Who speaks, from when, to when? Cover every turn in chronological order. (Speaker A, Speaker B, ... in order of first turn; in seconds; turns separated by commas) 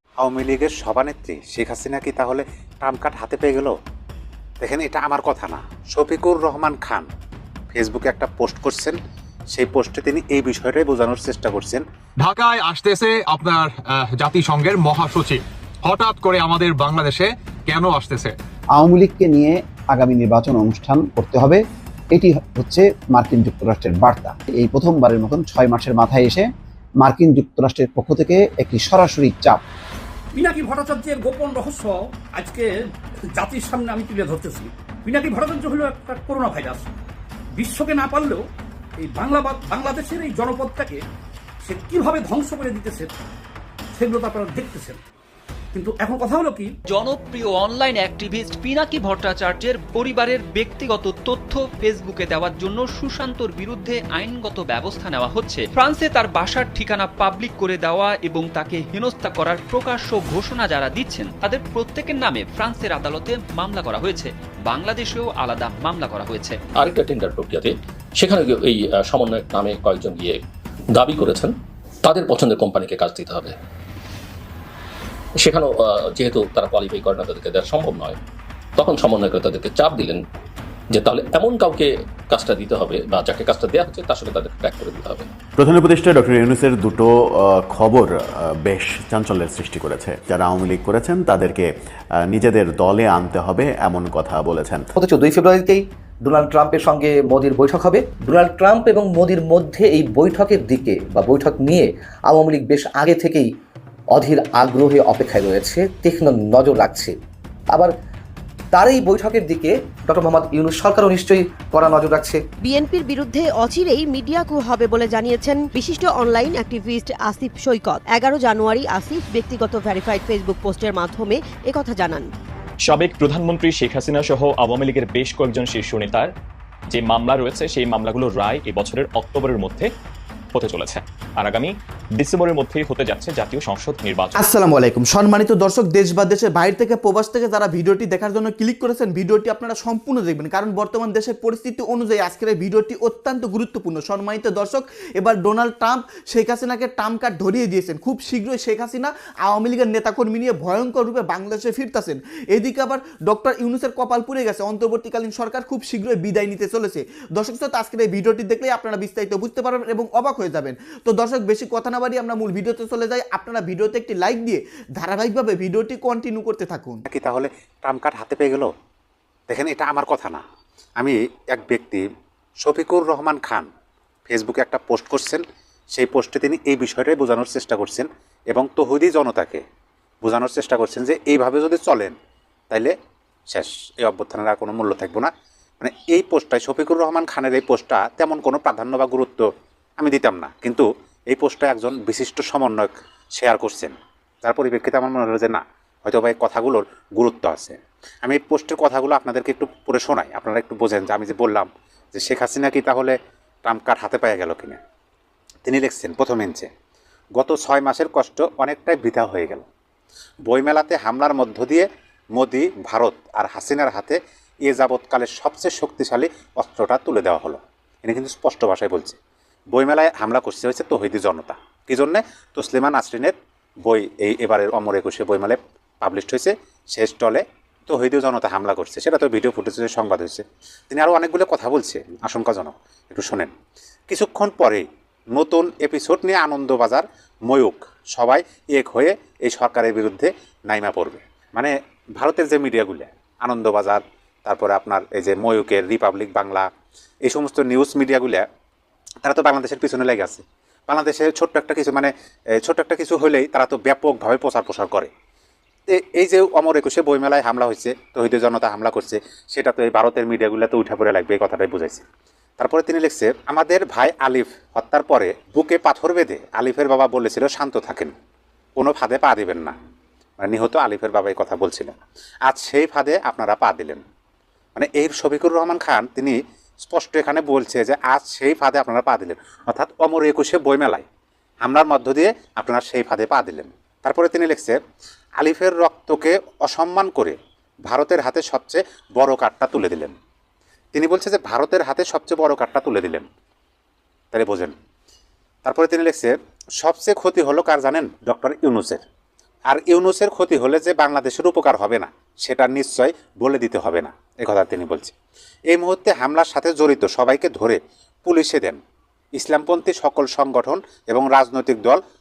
Speaker A: 0.2-3.7, Speaker A: 4.6-7.1, Speaker A: 7.7-9.0, Speaker A: 9.5-11.8, Speaker B: 12.2-18.3, Speaker C: 18.8-21.6, Speaker C: 22.1-26.5, Speaker C: 27.0-29.6, Speaker D: 30.3-32.8, Speaker D: 33.3-36.9, Speaker D: 37.6-38.4, Speaker D: 39.0-41.0, Speaker D: 41.6-43.1, Speaker D: 43.9-45.0, Speaker D: 45.7-46.7, Speaker E: 46.9-66.6, Speaker F: 66.8-70.4, Speaker F: 70.9-71.5, Speaker F: 72.0-73.5, Speaker F: 75.4-78.2, Speaker F: 78.8-80.2, Speaker F: 80.9-85.3, Speaker G: 85.6-94.9, Speaker H: 95.0-103.5, Speaker H: 104.1-107.2, Speaker H: 108.7-112.5, Speaker I: 112.6-122.3, Speaker J: 122.9-126.3, Speaker J: 126.9-129.9, Speaker J: 130.5-134.5, Speaker K: 134.3-167.0, Speaker A: 167.1-168.7, Speaker A: 169.5-170.4, Speaker A: 171.0-172.0, Speaker A: 172.6-173.7, Speaker A: 174.3-179.6, Speaker A: 180.2-182.1, Speaker A: 183.5-189.4, Speaker A: 190.0-204.8, Speaker A: 205.7-206.7, Speaker A: 207.3-209.6, Speaker A: 210.5-219.2, Speaker A: 219.7-233.5, Speaker A: 234.1-246.7, Speaker A: 247.2-248.4, Speaker A: 249.2-255.1, Speaker A: 255.9-262.0, Speaker A: 262.6-268.1, Speaker A: 268.8-269.7, Speaker A: 270.4-274.0, Speaker A: 274.8-281.1, Speaker A: 281.6-284.8, Speaker A: 285.4-290.1, Speaker A: 290.9-293.2, Speaker A: 294.3-294.7, Speaker A: 295.6-299.0, Speaker A: 299.7-305.1, Speaker A: 305.7-308.8, Speaker A: 309.3-312.0